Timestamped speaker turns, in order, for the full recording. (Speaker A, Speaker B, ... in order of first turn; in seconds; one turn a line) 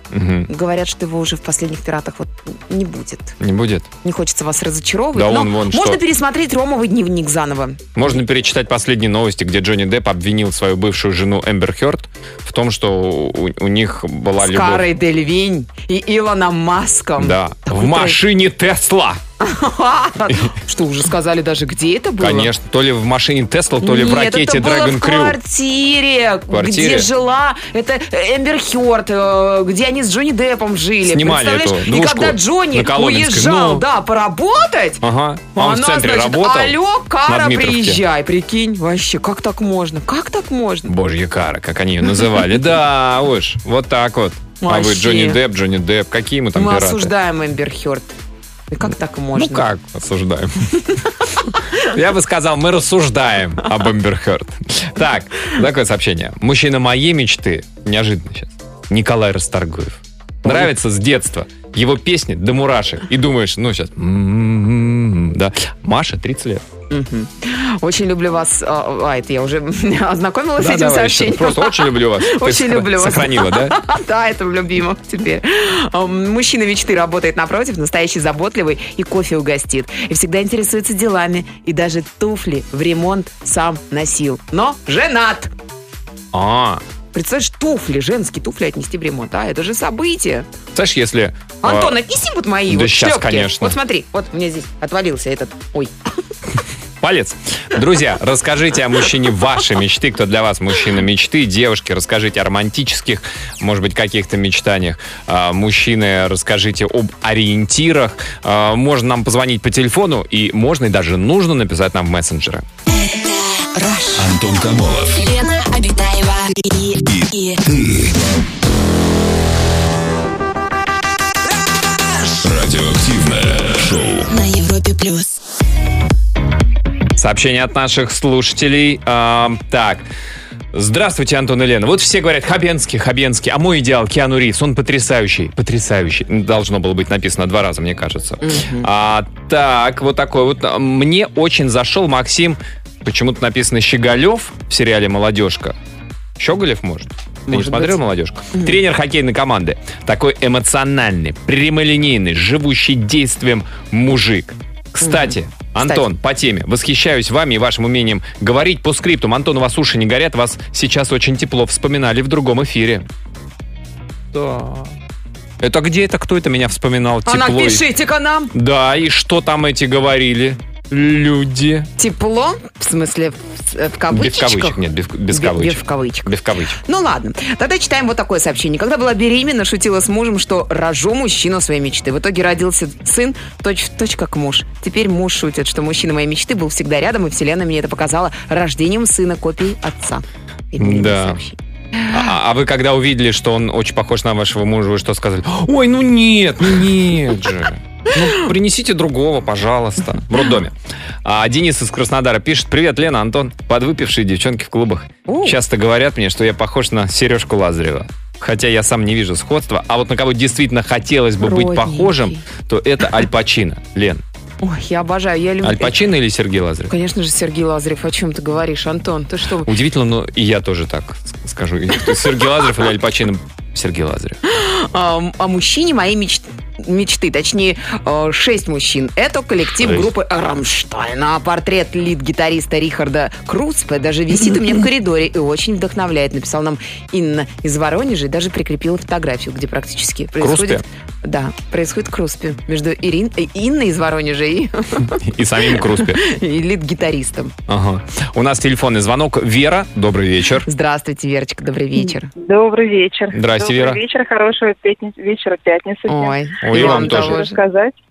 Speaker A: 0.1-0.5
Speaker B: 0.5-3.4
Speaker A: 3.4-3.9
Speaker B: 4.0-7.9
Speaker A: 5.1-6.0
Speaker A: 8.0-14.9
Speaker B: 14.4-18.2
Speaker A: 17.2-19.2
Speaker B: 19.4-22.5
Speaker A: 22.2-25.4
Speaker B: 23.8-35.0
Speaker A: 26.5-27.1
Speaker A: 31.0-33.8
Speaker A: 35.0-38.0
Speaker B: 35.5-40.9
Speaker A: 40.9-47.1
Speaker B: 44.6-45.4
Speaker B: 46.5-48.1
Speaker B: 48.7-49.7
Speaker A: 49.3-50.8
Speaker A: 51.8-66.7
Speaker B: 60.4-60.7
Speaker B: 66.9-85.5
Speaker A: 70.6-73.8
Speaker A: 86.3-86.8
Speaker B: 87.1-90.5
Speaker A: 90.7-92.0
Speaker B: 91.6-95.9
Speaker A: 92.7-93.8
Speaker A: 97.0-112.7
Speaker C: 112.9-114.3
Speaker D: 114.2-115.3
Speaker C: 115.2-117.6
Speaker D: 117.1-118.1
Speaker D: 122.4-124.3
Speaker C: 124.3-125.4
Speaker A: 127.2-130.1
Speaker A: 130.7-145.8
Speaker B: 138.4-138.9
Speaker A: 146.4-163.1
Speaker B: 147.5-148.0
Speaker B: 148.5-148.8
Speaker B: 155.0-156.1
Speaker A: 164.3-164.9
Speaker A: 165.6-167.8
Speaker B: 167.2-168.5
Speaker A: 168.5-171.9
Speaker B: 172.0-174.8
Speaker A: 174.1-176.8
Speaker B: 175.3-176.3
Speaker B: 176.8-192.2
Speaker A: 190.8-191.4
Speaker A: 192.1-214.2
Speaker B: 205.3-205.6
Speaker B: 211.4-212.4
Speaker B: 214.6-216.0
Speaker A: 215.6-216.9
Speaker B: 216.9-219.7
Speaker A: 219.6-224.4
Speaker B: 224.4-247.6
Speaker A: 229.7-230.1
Speaker A: 240.4-240.8
Speaker A: 245.1-246.2
Speaker A: 247.7-250.7
Speaker B: 250.7-252.3
Speaker E: 252.0-257.9
Speaker A: 253.3-254.0
Speaker B: 256.1-257.6
Speaker A: 256.6-257.4